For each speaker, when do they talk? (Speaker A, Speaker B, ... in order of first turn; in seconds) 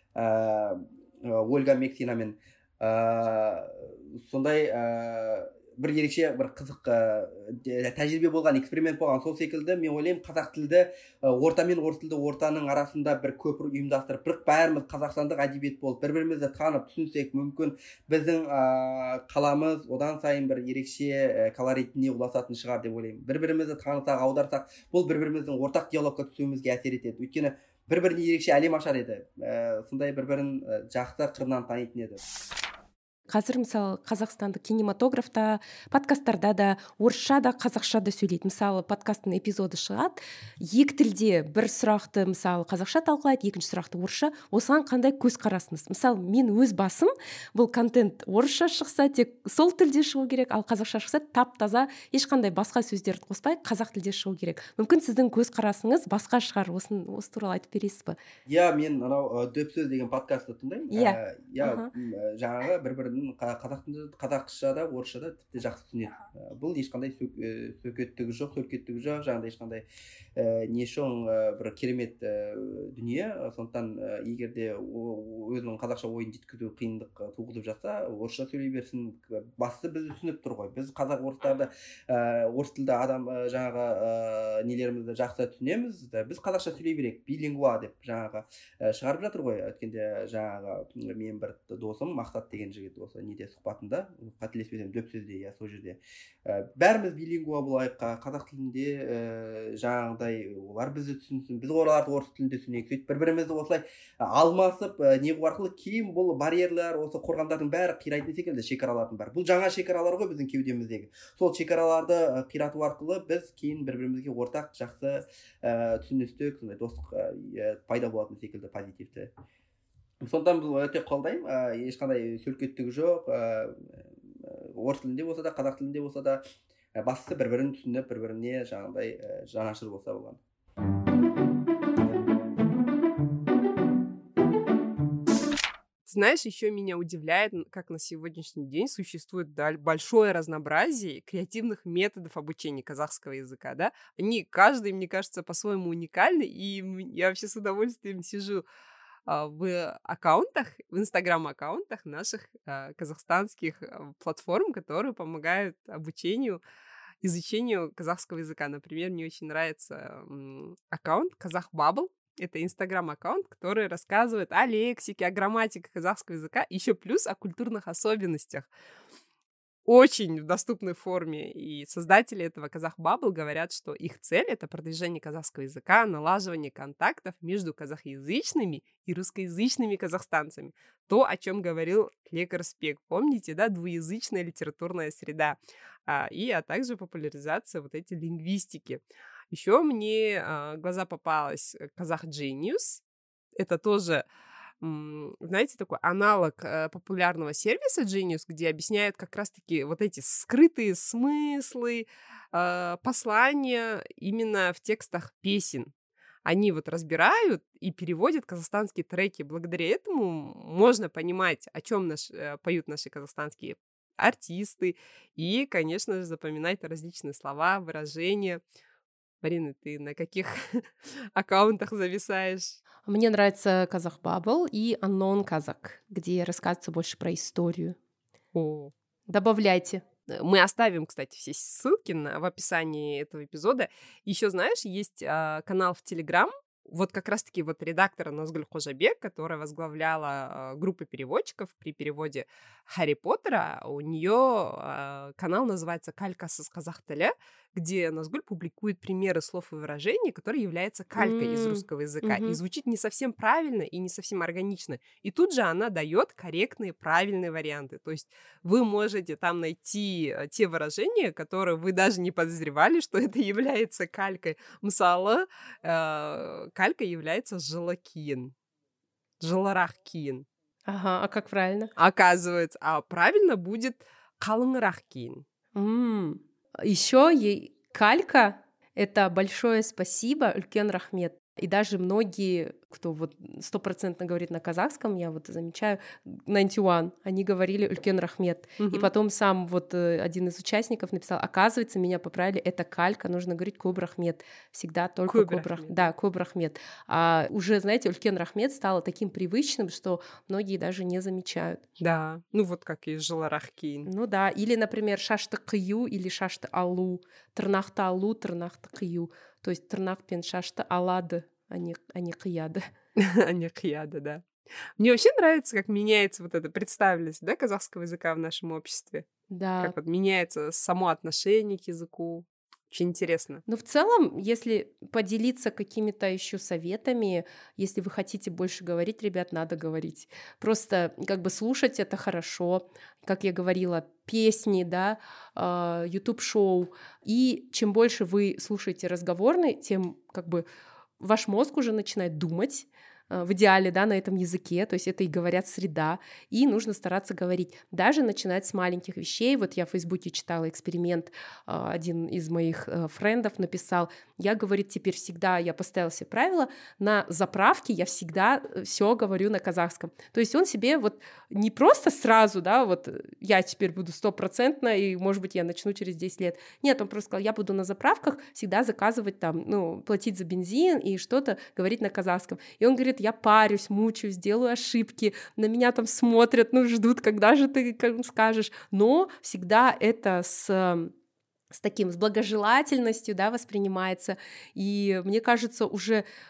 Speaker A: 0.2-32.2, 58.5-69.8, 70.4-119.3, 120.2-126.4, 127.0-130.4
Speaker B: 33.3-58.2, 60.9-61.9, 223.1-228.0, 229.3-230.0, 251.2-252.6, 270.9-271.9, 275.8-301.8, 304.1-312.8, 319.5-319.9, 323.7-340.6, 341.2-381.1, 381.7-386.2
Speaker C: 136.1-148.6, 149.3-156.6, 157.2-168.7, 169.9-193.0, 193.6-194.2, 194.8-205.9, 206.4-218.6, 219.4-222.8, 228.5-228.9, 230.3-268.5, 269.4-270.5, 272.0-275.4, 288.8-289.1, 295.3-296.1, 302.0-304.1, 313.2-314.4, 315.0-319.3, 319.8-323.6